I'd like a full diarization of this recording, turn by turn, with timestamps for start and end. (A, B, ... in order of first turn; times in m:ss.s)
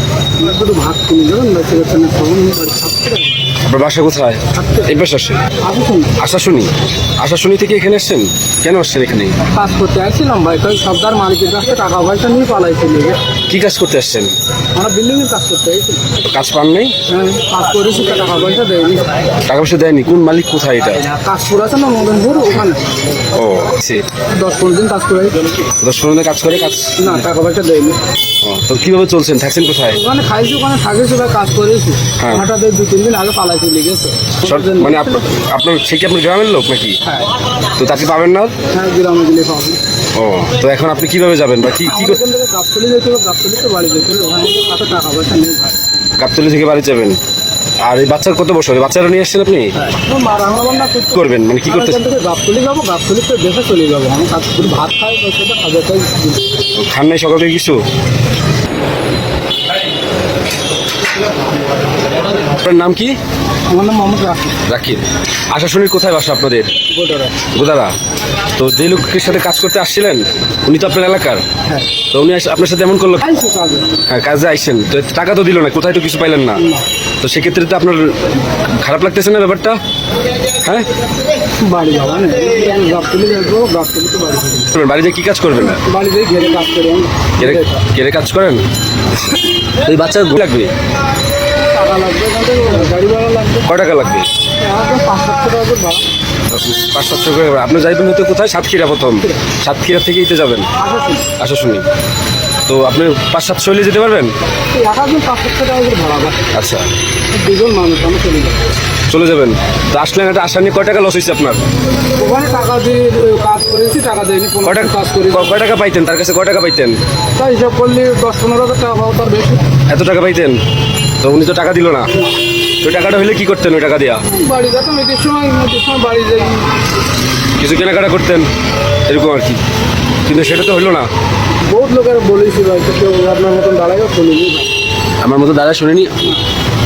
0:00.4-0:03.5 A
0:03.6-0:05.5 B
0:04.5-0:05.0 A
0:05.6-0:06.1 A
0:06.2-0:09.4 B
0:09.5-0:13.2 A
0:13.5-0:14.3 B
0:14.7-0:16.1 A
0:16.2-0:16.9 B
0:17.1-0:19.1 A
0:19.4-0:21.0 B
0:21.0-0:22.8 A
0:23.3-0:24.0 B
0:24.3-0:25.4 A
0:25.8-0:27.2 B
0:27.0-0:28.0 A
0:28.4-0:30.0 B
0:29.9-0:35.3 A
0:32.2-0:32.4 B
0:34.4-0:37.0 B
0:37.8-0:38.5 B
0:38.7-0:39.8 A
0:40.1-0:42.2 B
0:41.8-0:45.8 A
0:46.2-0:47.2 B
0:47.8-0:49.7 B
0:49.8-0:56.4 A
0:51.1-0:52.0 B
0:56.7-0:57.8 B
1:02.4-1:03.2 B
1:03.7-1:04.6 A
1:04.7-1:06.7 B
1:06.9-1:07.4 A
1:07.5-1:07.9 B
1:08.5-1:11.4 B
1:12.1-1:13.2 B
1:13.2-1:14.0 A
1:14.1-1:16.6 B
1:16.6-1:16.8 A
1:17.2-1:18.3 B
1:18.8-1:19.8 B
1:20.6-1:20.9 B
1:21.6-1:24.7 A
1:24.7-1:25.8 B
1:25.7-1:27.8 A
1:27.4-1:28.6 B
1:29.7-1:30.7 B
1:31.7-1:33.7 A
1:33.6-1:34.3 B
1:34.6-1:36.0 A
1:36.5-1:40.7 B
1:40.8-1:41.2 A
1:41.4-1:41.8 B
1:42.6-1:44.3 B
1:44.7-1:46.4 A
1:46.5-1:46.8 B
1:47.3-1:48.6 A
1:49.1-1:51.6 B
1:52.2-1:55.5 A
1:54.6-1:57.0 B
1:57.4-1:59.6 A
1:59.9-2:00.6 B
2:01.2-2:02.1 B
2:02.8-2:04.2 B
2:04.2-2:06.7 A
2:07.6-2:08.5 B
2:09.0-2:09.6 B
2:10.2-2:11.1 B
2:11.7-2:14.7 A
2:15.2-2:16.1 B